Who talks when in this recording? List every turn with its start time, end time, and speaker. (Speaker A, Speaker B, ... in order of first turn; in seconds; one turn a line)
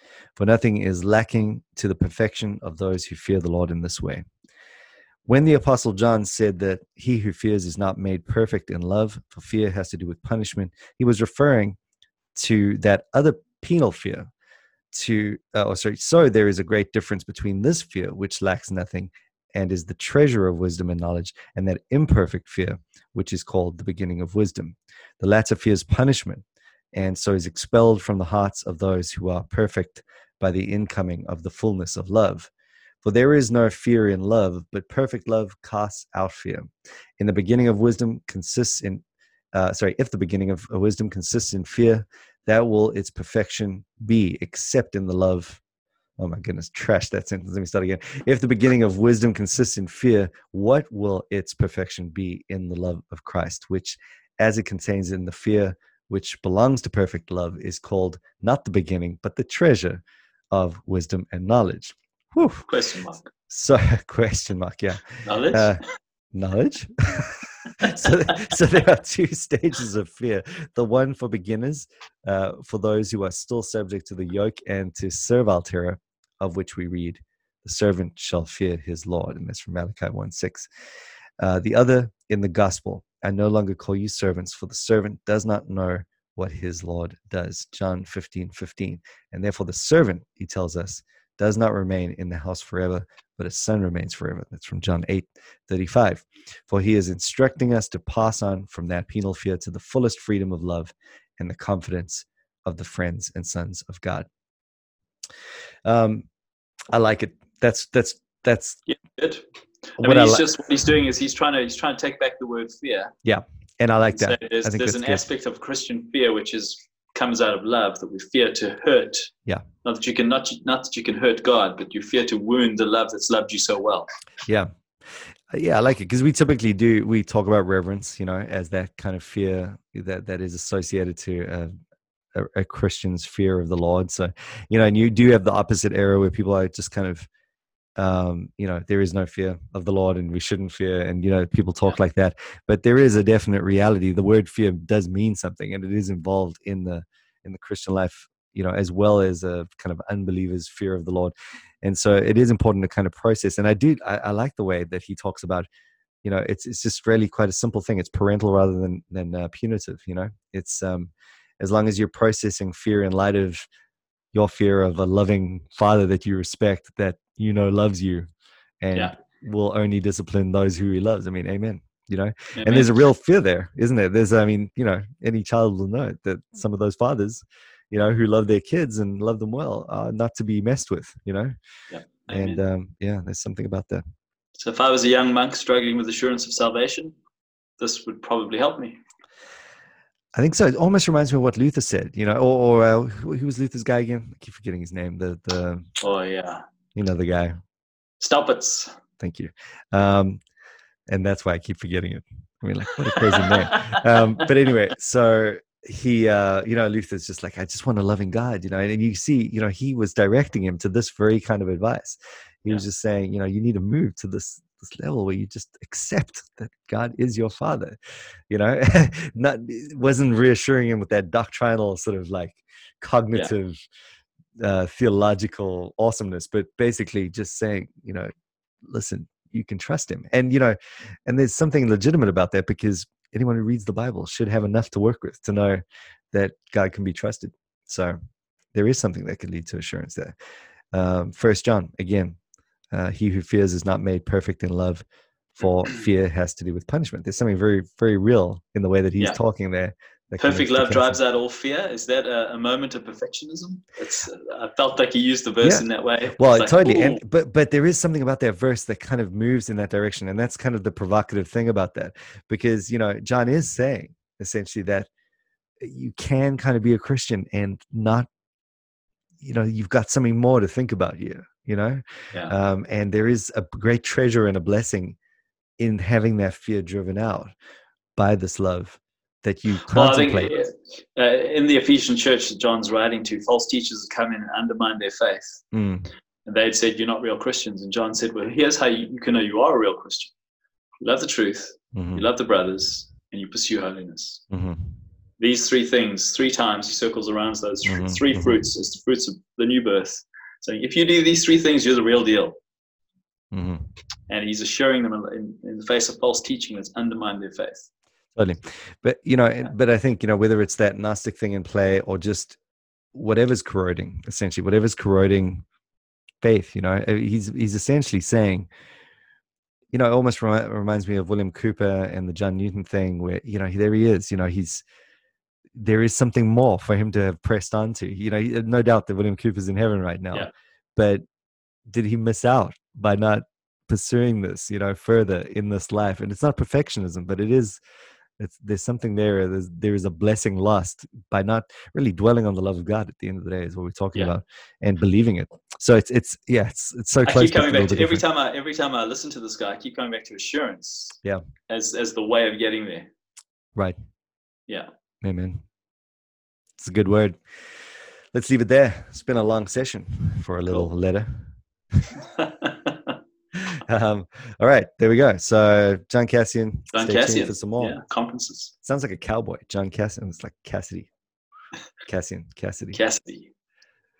Speaker A: 0.4-4.3
Speaker A: 5.3-11.8
Speaker A: 12.3-14.3
Speaker A: 14.9-32.5
Speaker A: 33.0-39.0
Speaker A: 39.5-45.6
Speaker A: 46.2-62.7
Speaker B: 62.7-63.3
Speaker A: 63.5-65.8
Speaker B: 65.2-65.8
Speaker A: 66.3-80.7
Speaker B: 67.7-68.4
Speaker A: 81.4-104.3
Speaker A: 105.8-106.3
Speaker A: 106.9-108.8
Speaker B: 108.9-109.4
Speaker B: 110.0-113.1
Speaker A: 110.0-110.5
Speaker A: 113.2-115.2
Speaker B: 114.1-119.3
Speaker B: 119.8-124.1
Speaker A: 124.5-124.7
Speaker A: 125.5-131.8
Speaker A: 132.3-137.3
Speaker A: 138.0-155.7
Speaker A: 156.2-163.7
Speaker A: 164.3-168.3
Speaker A: 168.8-181.5
Speaker B: 172.6-173.0
Speaker B: 181.9-182.6
Speaker A: 182.3-184.0
Speaker B: 184.6-187.2
Speaker B: 187.8-189.0
Speaker A: 190.3-195.9
Speaker B: 196.0-196.6
Speaker A: 196.9-197.6
Speaker B: 198.2-199.0
Speaker A: 199.2-200.4
Speaker A: 201.1-218.0
Speaker B: 203.1-204.4
Speaker A: 218.5-223.8
Speaker A: 224.6-228.3
Speaker A: 228.8-238.2
Speaker A: 238.7-240.3
Speaker A: 240.9-242.4
Speaker A: 242.9-251.2
Speaker B: 250.4-257.2
Speaker A: 256.4-265.1
Speaker A: 265.8-268.3
Speaker A: 269.4-275.2
Speaker A: 275.8-277.5
Speaker A: 278.2-280.5
Speaker B: 279.9-285.6
Speaker A: 285.7-286.1
Speaker B: 286.4-290.3
Speaker B: 291.0-294.4
Speaker A: 291.9-292.2
Speaker A: 294.5-294.9
Speaker B: 295.4-302.6
Speaker A: 297.9-298.6
Speaker A: 303.5-303.9
Speaker B: 304.3-307.9
Speaker A: 308.4-312.6
Speaker A: 313.1-315.6
Speaker A: 316.4-318.7
Speaker A: 319.9-324.9
Speaker A: 325.8-331.2
Speaker A: 331.9-337.8
Speaker A: 338.4-348.2
Speaker B: 347.2-351.2
Speaker B: 351.7-353.1
Speaker A: 355.2-355.6
Speaker A: 356.8-357.4
Speaker A: 358.3-362.1
Speaker B: 362.2-363.2
Speaker A: 363.6-368.0
Speaker B: 366.9-368.7
Speaker A: 368.8-371.1
Speaker A: 372.1-373.0
Speaker B: 372.9-373.5